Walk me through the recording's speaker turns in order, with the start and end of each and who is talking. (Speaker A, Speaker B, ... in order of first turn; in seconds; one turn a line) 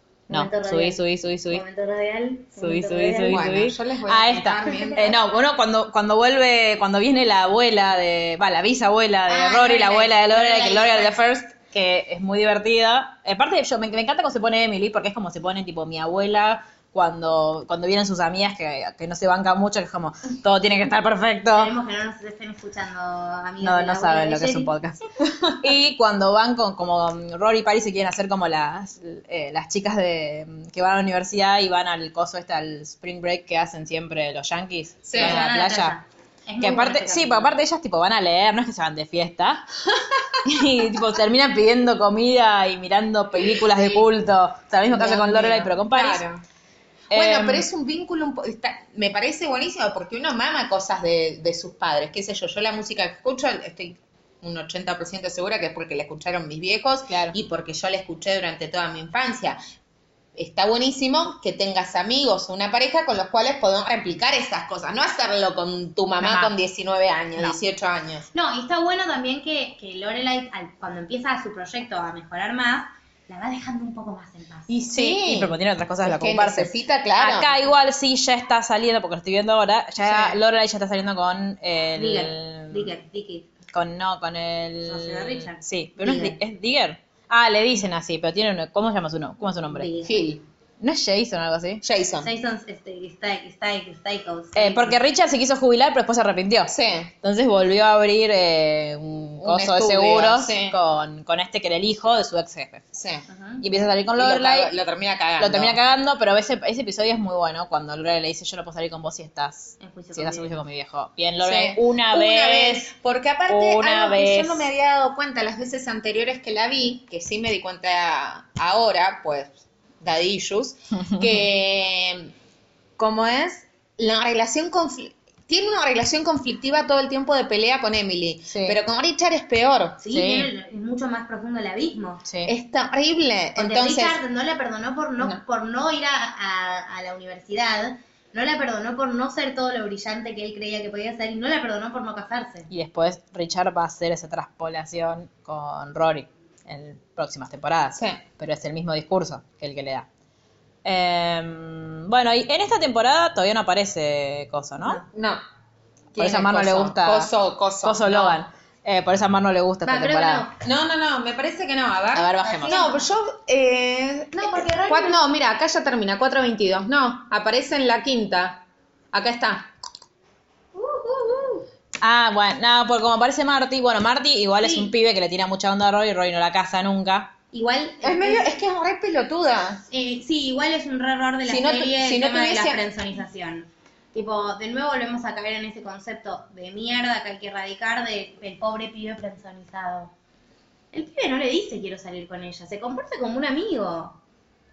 Speaker A: 0.3-1.6
Speaker B: 0.3-3.5
Speaker A: 2.6-21.7
Speaker C: 3.3-5.2
Speaker B: 9.3-11.2
Speaker B: 21.5-24.8
Speaker A: 23.6-25.0
Speaker A: 25.6-36.0
Speaker C: 35.0-35.5
Speaker B: 35.1-37.5
Speaker A: 36.6-39.6
Speaker A: 40.5-46.2
Speaker C: 43.5-44.0
Speaker C: 44.9-46.4
Speaker C: 47.1-59.6
Speaker A: 47.1-47.7
Speaker A: 57.1-57.4
Speaker C: 60.4-68.3
Speaker A: 66.2-66.5
Speaker B: 68.3-74.7
Speaker A: 74.7-82.9
Speaker C: 74.8-77.6
Speaker C: 80.0-80.4
Speaker B: 82.0-83.5
Speaker A: 83.7-89.9
Speaker B: 84.8-86.4
Speaker B: 89.7-90.3
Speaker C: 90.0-90.4
Speaker A: 90.8-91.8
Speaker C: 91.8-92.3
Speaker B: 92.2-95.0
Speaker A: 94.5-102.8
Speaker C: 96.7-97.1
Speaker C: 99.4-100.8
Speaker C: 102.9-103.3
Speaker B: 103.3-103.6
Speaker A: 103.6-104.7
Speaker C: 104.2-105.8
Speaker A: 105.4-112.9
Speaker B: 109.8-110.6
Speaker C: 111.4-122.3
Speaker A: 113.5-114.7
Speaker C: 123.0-130.0
Speaker A: 128.5-128.8
Speaker B: 130.0-132.2
Speaker A: 130.1-130.5
Speaker A: 132.2-132.5
Speaker C: 132.5-134.2
Speaker B: 133.6-142.7
Speaker A: 142.7-150.1
Speaker C: 147.9-148.2
Speaker A: 150.8-155.0
Speaker C: 155.1-155.4
Speaker C: 156.1-158.4
Speaker A: 156.2-157.3
Speaker A: 157.8-160.5
Speaker B: 159.8-160.6
Speaker C: 160.6-169.7
Speaker A: 162.1-162.8
Speaker B: 162.4-163.1
Speaker B: 164.4-165.2
Speaker B: 170.8-171.7
Speaker A: 172.0-177.3
Speaker B: 174.6-174.9
Speaker B: 177.5-178.5
Speaker C: 178.0-179.8
Speaker B: 179.9-190.1
Speaker C: 181.5-182.8
Speaker B: 190.9-194.2